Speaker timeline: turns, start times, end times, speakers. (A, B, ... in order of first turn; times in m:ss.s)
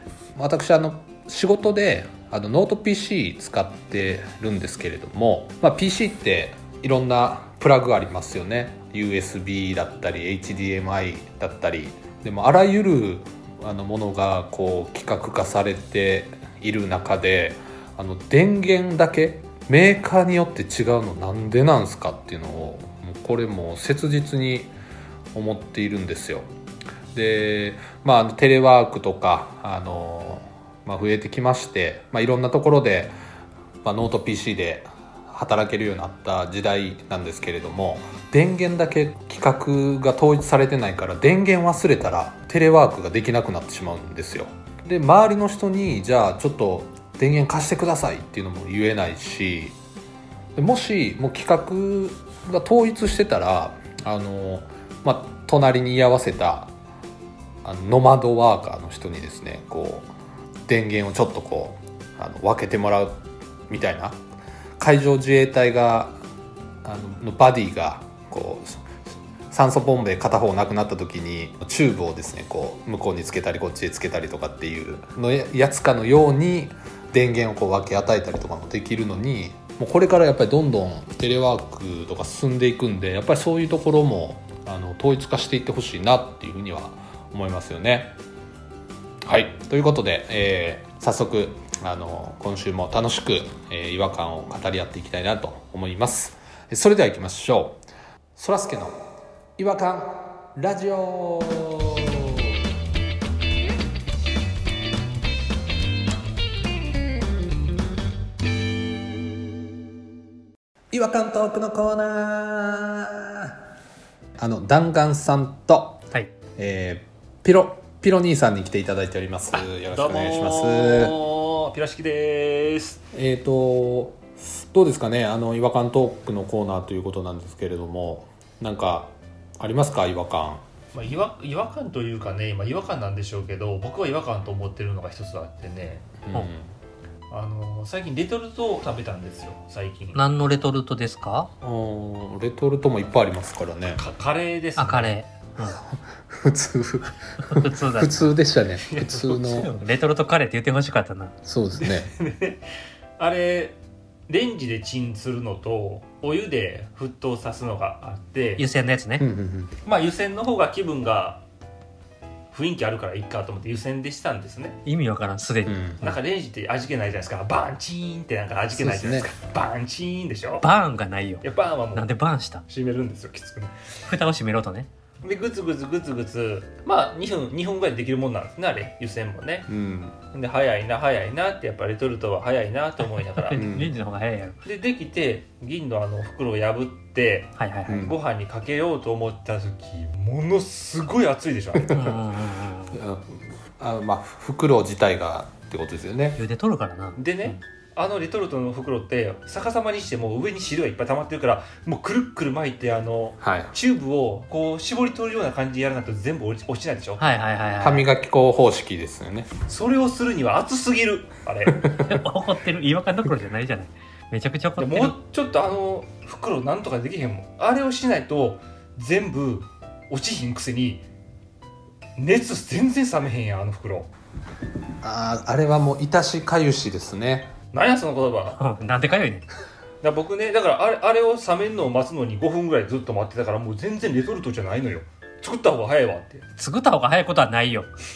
0:00.3-0:24.7 A
0:25.3-0:26.4 A
0:27.1-0:33.1 A
0:33.8-0:49.8 A
0:50.6-0:56.7 A
0:57.6-1:00.1 A
1:00.7-1:04.2 A
1:04.8-1:06.2 A
1:06.8-1:08.9 A
1:09.5-1:28.1 A
1:29.2-1:37.8 A
1:38.4-1:39.0 A
1:39.6-1:42.5 A
1:50.9-1:53.6 A
1:54.4-1:56.0 A
1:56.6-2:01.1 A
1:59.5-2:03.0 B
2:03.1-2:10.6 A
2:10.9-2:16.1 B
2:16.2-2:16.7 A
2:17.3-2:20.2 B
2:20.1-2:21.5 C
2:21.6-2:24.0 A
2:24.0-2:25.1 B
2:24.8-2:25.8 C
2:26.0-2:29.7 A
2:27.4-2:28.3 C
2:28.8-2:29.5 B
2:29.4-2:31.3 C
2:31.4-2:32.1 A
2:31.8-2:32.6 B
2:33.2-2:33.8 B
2:34.3-2:38.6 B
2:38.6-2:39.2 C
2:39.2-2:39.7 A
2:39.8-2:41.4 B
2:42.5-2:44.8 B
2:44.8-2:45.8 C
2:45.6-2:46.2 A
2:46.0-2:50.6 B
2:48.7-2:49.3 A
2:50.6-2:52.6 C
2:51.4-2:52.1 B
2:52.7-2:53.7 B
2:54.0-2:54.9 C
2:55.2-2:59.7 B
2:59.7-3:00.2 A
3:00.3-3:03.6 B
3:03.5-3:04.6 C
3:03.5-3:03.9 A
3:04.6-3:11.9 B
3:07.6-3:08.1 C
3:07.9-3:08.1 A
3:11.8-3:12.2 A
3:11.9-3:13.0 C
3:12.9-3:16.4 A
3:16.4-3:17.2 C
3:17.2-3:27.2 B
3:23.4-3:23.7 A
3:27.2-3:28.1 C
3:27.8-3:29.5 A
3:29.7-3:31.8 B
3:31.8-3:32.1 A
3:32.0-3:35.1 C
3:34.8-3:41.0 B
3:42.2-3:44.1 B
3:45.0-3:47.5 A
3:47.7-3:48.6 B
3:48.6-3:49.4 C
3:50.0-3:56.4 B
3:56.6-3:57.9 C